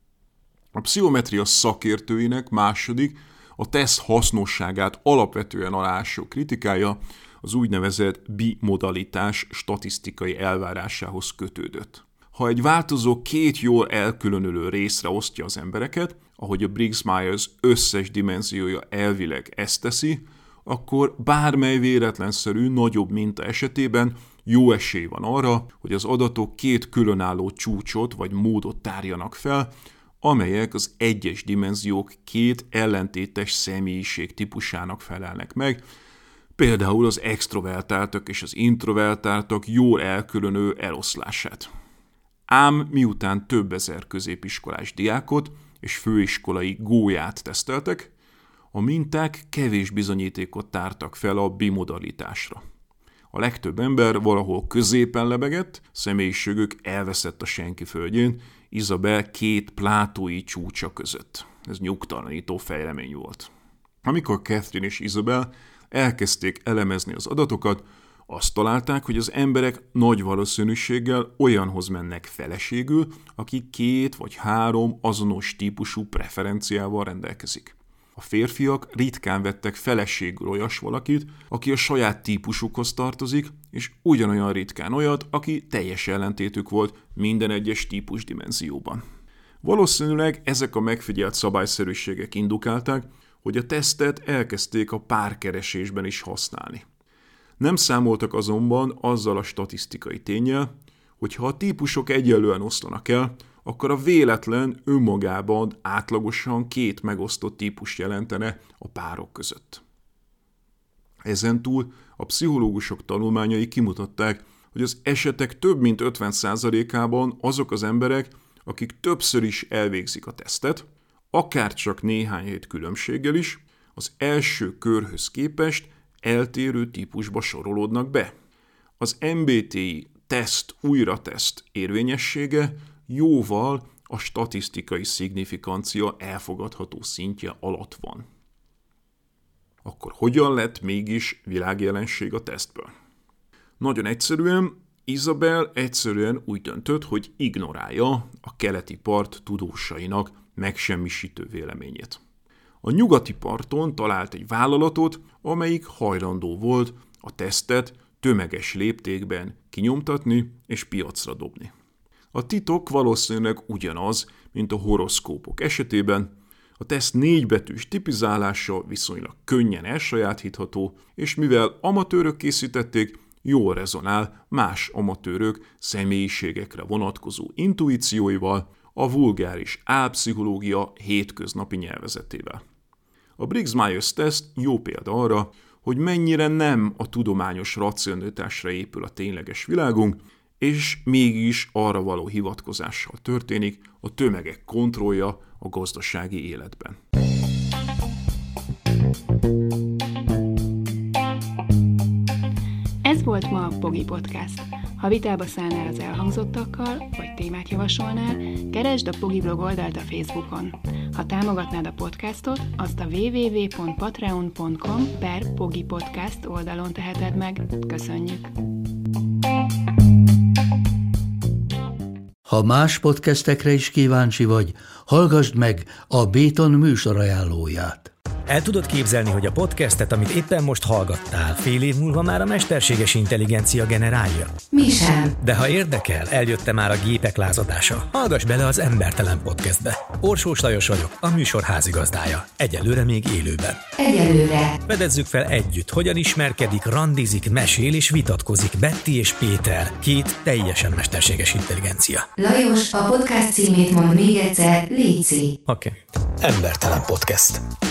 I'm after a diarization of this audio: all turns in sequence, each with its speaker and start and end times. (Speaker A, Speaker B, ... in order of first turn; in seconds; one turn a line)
Speaker A: 0.7-35.8
Speaker A: 36.6-41.7
Speaker A: 42.5-48.1
Speaker A: 48.7-52.6
Speaker A: 53.3-63.5
Speaker A: 64.0-89.0
Speaker A: 89.6-96.8
Speaker A: 97.6-109.8
Speaker A: 111.2-128.3
Speaker A: 129.0-138.2
Speaker A: 139.8-142.9
Speaker A: 143.8-152.2
Speaker A: 152.8-161.7
Speaker A: 162.3-182.6
Speaker A: 183.4-197.0
Speaker B: 203.0-218.5
Speaker C: 222.4-228.1
Speaker D: 228.5-234.6
Speaker E: 234.7-235.3
Speaker D: 235.4-243.8
Speaker E: 244.0-244.8
Speaker D: 244.8-252.3
Speaker E: 252.4-255.6
Speaker D: 255.7-257.6